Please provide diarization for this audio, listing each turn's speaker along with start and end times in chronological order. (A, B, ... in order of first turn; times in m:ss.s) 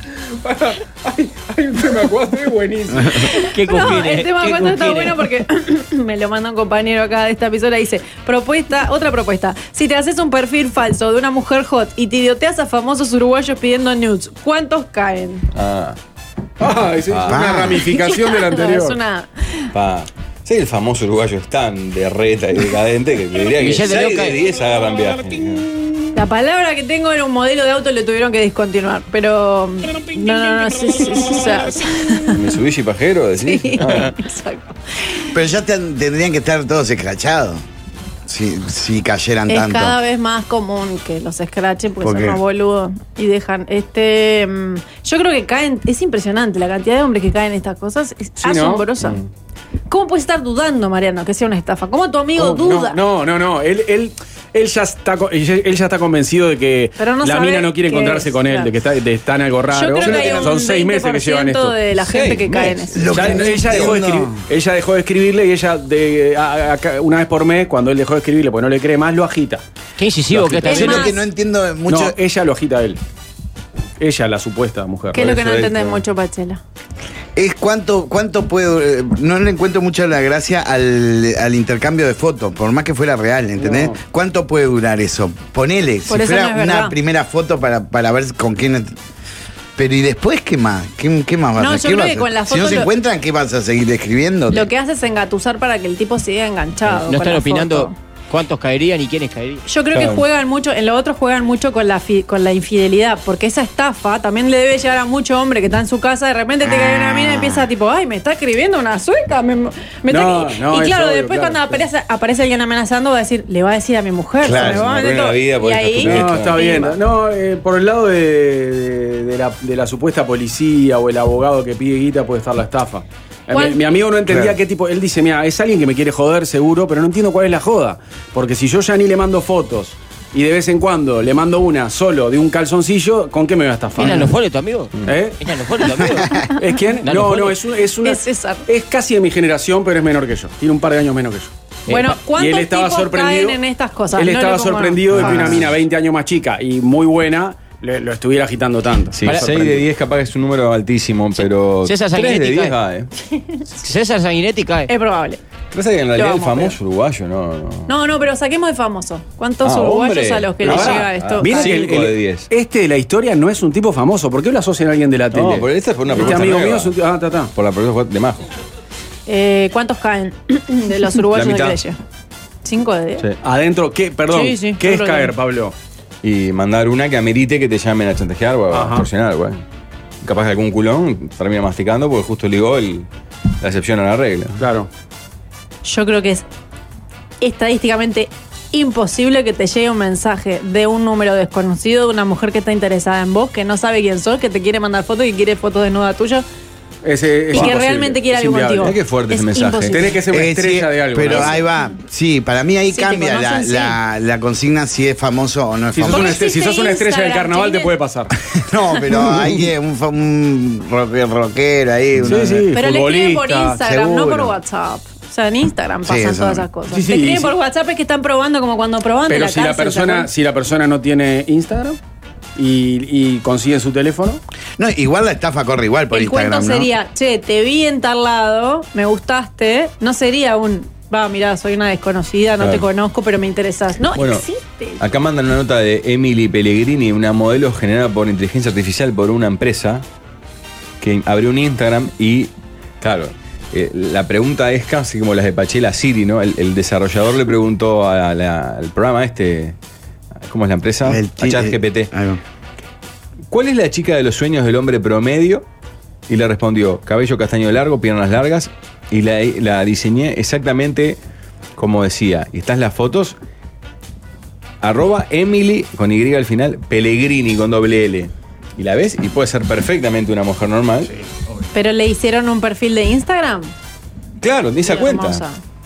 0:00.4-0:03.2 A
0:03.0-0:03.2 B
0:03.3-0:15.4 C
0:03.3-0:05.2 D
0:15.5-0:16.0 E
0:16.6-0:19.0 A
0:17.1-0:17.6 E
0:17.3-0:17.8 B
0:17.8-0:19.7 C
0:19.7-0:25.7 E
0:23.5-0:24.4 D
0:26.1-0:32.4 C
0:32.3-0:34.1 E
0:33.4-0:35.3 C
0:35.3-0:37.6 B
0:38.3-0:40.0 B
0:39.5-0:49.2 C
0:42.0-0:42.4 B
0:48.4-0:48.8 A
0:49.9-0:53.0 C
0:52.4-1:01.8 A
0:57.0-0:58.7 C
0:59.7-1:03.4 C
1:00.0-1:00.6 B
1:02.0-1:02.9 E
1:02.9-1:04.4 B
1:03.0-1:09.6 A
1:10.0-1:11.1 D
1:10.3-1:10.8 A
1:10.6-1:12.2 B
1:10.6-1:11.2 C
1:11.9-1:13.0 A
1:14.0-1:15.3 A
1:15.1-1:16.6 C
1:15.2-1:16.0 E
1:17.4-1:28.9 B
1:23.6-1:24.0 A
1:26.1-1:26.9 C
1:29.8-1:34.7 B
1:31.6-1:32.9 C
1:34.5-1:37.9 C
1:36.9-1:39.6 D
1:39.7-1:57.0 C
1:39.9-1:40.2 E
1:46.6-1:47.7 B
1:50.1-1:51.8 A
1:54.4-1:54.8 B
1:54.4-1:56.8 E
1:56.0-2:14.3 A
2:03.5-2:03.8 C
2:04.3-2:04.6 B
2:14.0-2:16.4 D
2:15.0-2:15.4 A
2:16.6-2:21.5 A
2:17.0-2:17.6 D
2:18.0-2:18.6 C
2:21.9-2:22.1 D
2:21.9-2:25.6 C
2:22.3-2:23.6 A
2:24.1-2:29.8 A
2:25.1-2:25.7 E
2:29.2-2:33.1 E
2:31.4-2:32.8 D
2:33.8-2:34.9 D
2:34.9-2:35.4 C
2:35.7-2:37.9 E
2:36.2-2:36.8 C
2:37.9-2:41.8 C
2:39.6-2:42.5 E
2:40.6-2:47.5 A
2:45.3-2:46.9 E
2:47.5-2:48.4 E
2:49.3-2:52.0 C
2:51.3-2:51.8 E
2:52.6-2:53.2 C
2:53.4-2:55.7 A
2:54.3-2:55.3 C
2:56.2-2:59.6 E
2:58.7-2:59.1 A
3:00.2-3:03.1 E
3:03.6-3:04.6 E
3:04.6-3:04.9 A
3:05.8-3:06.4 C
3:07.4-3:16.4 C
3:17.0-3:18.9 A
3:17.5-3:20.2 C
3:18.8-3:20.1 E
3:19.9-3:21.6 A
3:20.3-3:26.4 B
3:22.9-3:24.0 C
3:25.9-3:28.3 A
3:26.1-3:27.9 C
3:28.5-3:32.7 B
3:32.2-3:33.8 A
3:32.7-3:40.3 C
3:33.7-3:34.6 B
3:36.0-3:36.7 B
3:36.9-3:37.5 A
3:39.3-3:42.0 A
3:42.6-3:44.4 A
3:44.8-3:46.9 B
3:46.1-3:55.0 C
3:52.6-3:52.8 E
3:54.1-3:54.4 E
3:55.0-4:00.0 E
4:01.0-4:09.7 E
4:10.4-4:12.1 E
4:11.0-4:12.4 B
4:13.5-4:15.6 E
4:16.3-4:21.2 E
4:21.8-4:23.4 E
4:24.8-4:31.1 E
4:31.7-4:33.7 C
4:34.4-4:35.4 E
4:34.8-4:35.6 C